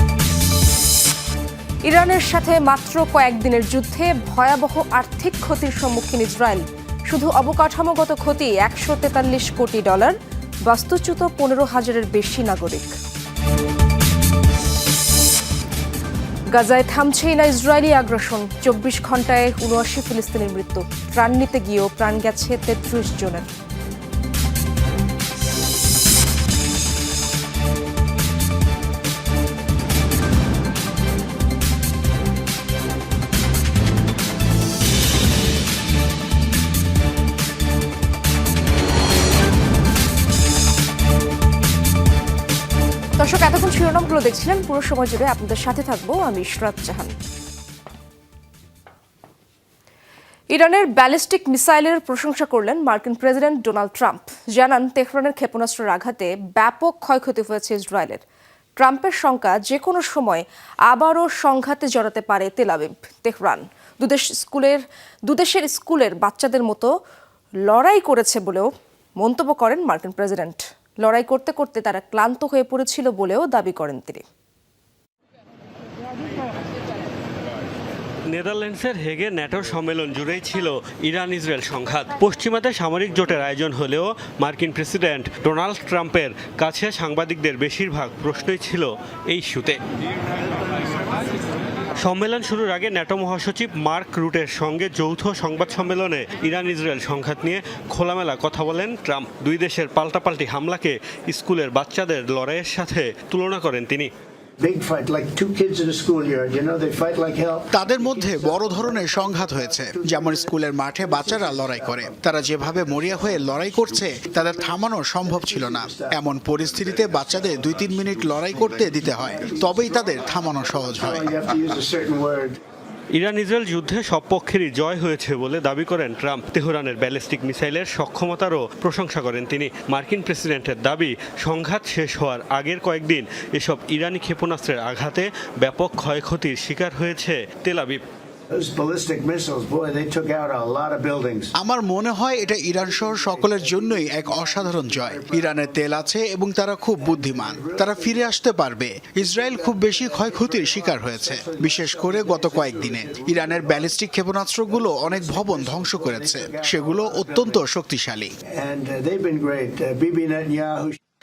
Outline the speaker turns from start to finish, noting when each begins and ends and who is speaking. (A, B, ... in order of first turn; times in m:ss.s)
0:01.8-0:12.9 A
0:16.5-0:23.5 A
0:43.2-0:47.1 A
0:50.5-0:58.2 A
0:58.8-1:06.9 A
1:07.7-1:08.7 A
1:09.2-1:14.2 A
1:18.3-1:29.8 B
1:32.0-1:44.1 B
1:44.6-2:02.6 C
1:47.7-2:01.6 D
2:03.2-2:18.0 B
2:18.5-2:21.5 C
2:21.6-2:38.3 D
2:22.2-2:26.1 C
2:26.9-2:28.4 C
2:29.1-2:34.1 C
2:34.6-2:37.7 C
2:38.5-2:41.0 C